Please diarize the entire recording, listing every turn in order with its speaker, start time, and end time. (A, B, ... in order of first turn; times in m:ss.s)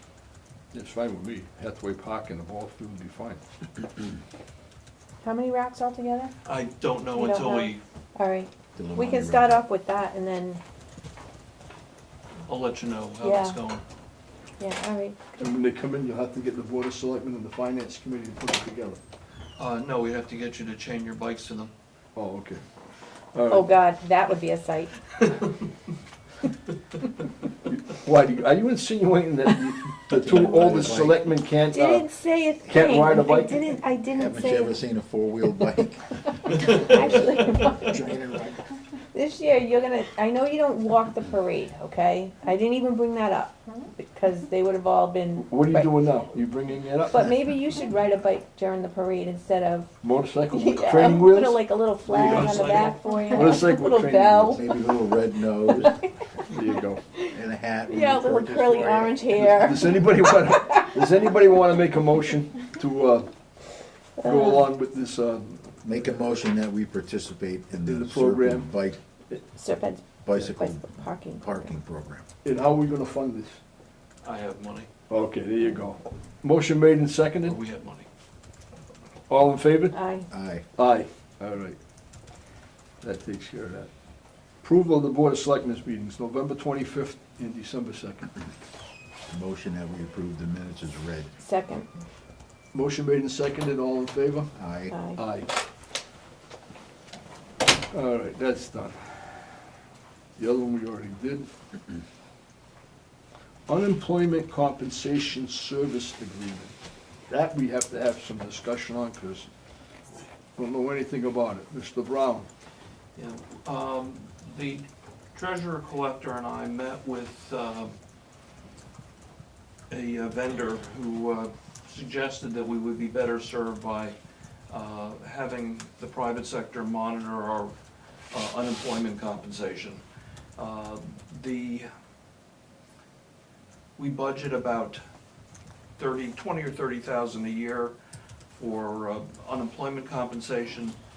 0:00.7-0:03.4 A
0:05.2-0:06.3 B
0:06.4-0:07.8 C
0:07.1-0:10.6 B
0:08.8-0:09.6 D
0:12.5-0:13.8 C
0:13.2-0:13.6 B
0:14.6-0:15.4 B
0:15.4-0:19.0 A
0:19.6-0:21.7 C
0:22.2-0:22.6 A
0:23.3-0:23.7 A
0:23.5-0:25.0 B
0:27.7-0:32.1 A
0:30.1-0:31.2 D
0:31.7-0:34.8 B
0:32.6-0:33.7 A
0:34.1-0:38.6 D
0:36.5-0:38.0 B
0:39.1-0:45.9 B
0:45.4-0:47.3 A
0:47.1-0:55.0 B
0:50.0-0:54.6 A
0:52.2-0:53.6 C
0:54.4-0:56.1 D
0:55.7-0:56.3 B
0:56.5-0:57.0 A
0:57.3-0:59.2 D
0:57.9-1:00.3 B
0:59.4-1:03.3 A
1:04.2-1:04.7 B
1:04.2-1:05.7 A
1:05.8-1:09.0 D
1:07.9-1:08.7 A
1:09.6-1:11.6 B
1:10.2-1:12.3 D
1:12.4-1:13.6 A
1:14.2-1:14.9 C
1:15.1-1:17.6 A
1:17.4-1:18.1 C
1:19.3-1:20.0 A
1:19.9-1:20.3 B
1:20.3-1:20.7 D
1:20.8-1:21.8 A
1:23.0-1:23.9 A
1:24.6-1:28.3 A
1:29.3-1:31.3 D
1:31.4-1:31.9 B
1:32.7-1:34.5 A
1:34.5-1:35.0 D
1:34.9-1:35.2 B
1:35.2-1:35.5 A
1:37.9-1:39.0 A
1:40.4-1:41.5 A
1:43.7-1:46.8 A
1:47.3-1:49.5 A
1:50.6-1:52.5 A
1:53.2-1:58.0 C
1:59.9-2:04.2 C
2:04.7-2:07.8 C
2:08.3-2:10.0 C
2:10.6-2:11.9 C
2:14.0-2:15.0 C
2:16.0-2:18.0 C
2:18.6-2:21.0 C